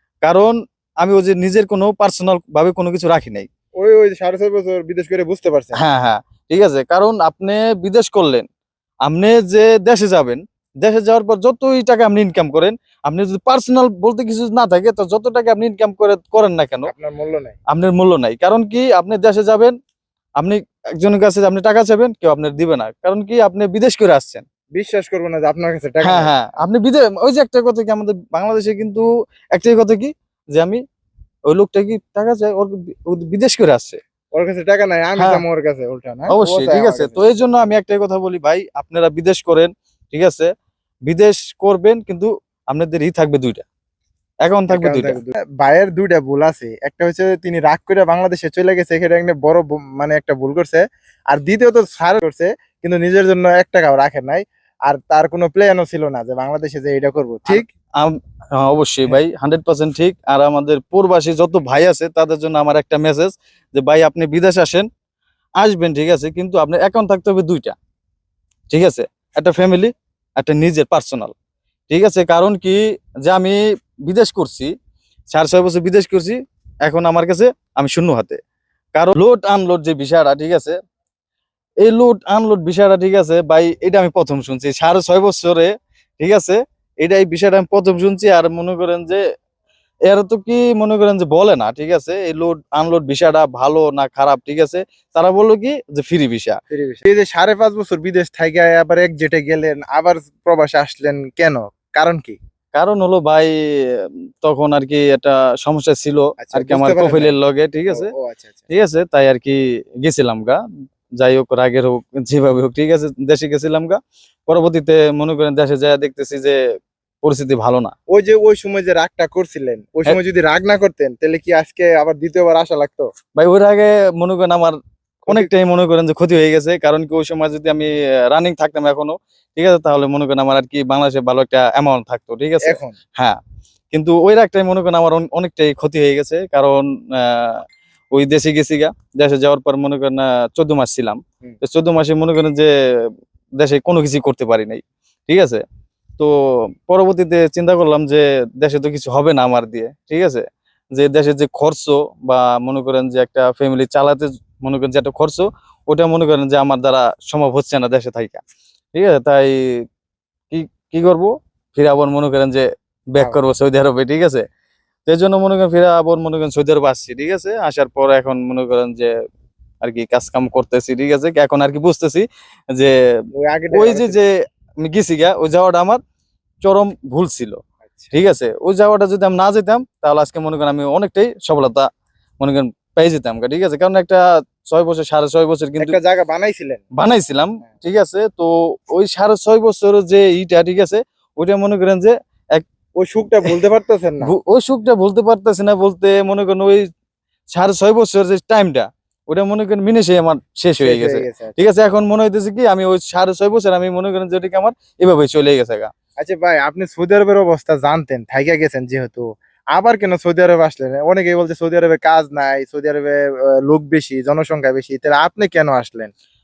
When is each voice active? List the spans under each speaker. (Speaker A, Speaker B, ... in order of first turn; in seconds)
Speaker A: 0.2-3.5, 5.7-8.5, 9.1-16.9, 17.7-19.8, 20.4-24.4, 26.0-30.8, 31.5-34.0, 36.3-40.5, 41.1-43.6, 44.5-45.2, 57.5-64.9, 65.6-67.8, 68.7-71.3, 71.9-74.7, 75.3-78.4, 79.0-80.8, 81.8-89.2, 90.1-96.6, 102.8-108.1, 108.7-110.6, 111.2-116.6, 117.2-117.9, 123.4-124.8, 125.3-133.4, 133.9-142.7, 143.6-145.6, 146.9-158.4, 158.9-159.6, 160.5-164.4, 165.1-169.1, 169.8-172.9, 173.7-176.0, 176.6-177.6, 178.1-181.9, 182.4-186.0, 187.0-192.7, 194.2-196.9, 197.5-205.9
Speaker B: 3.8-5.8, 16.9-17.6, 24.8-26.3, 34.3-37.3, 44.7-57.7, 96.7-102.4, 106.4-107.3, 107.9-108.7, 118.1-123.1, 125.2-125.5, 132.6-133.0, 173.3-174.2, 185.8-186.8, 193.0-194.3, 200.8-201.6, 206.2-216.1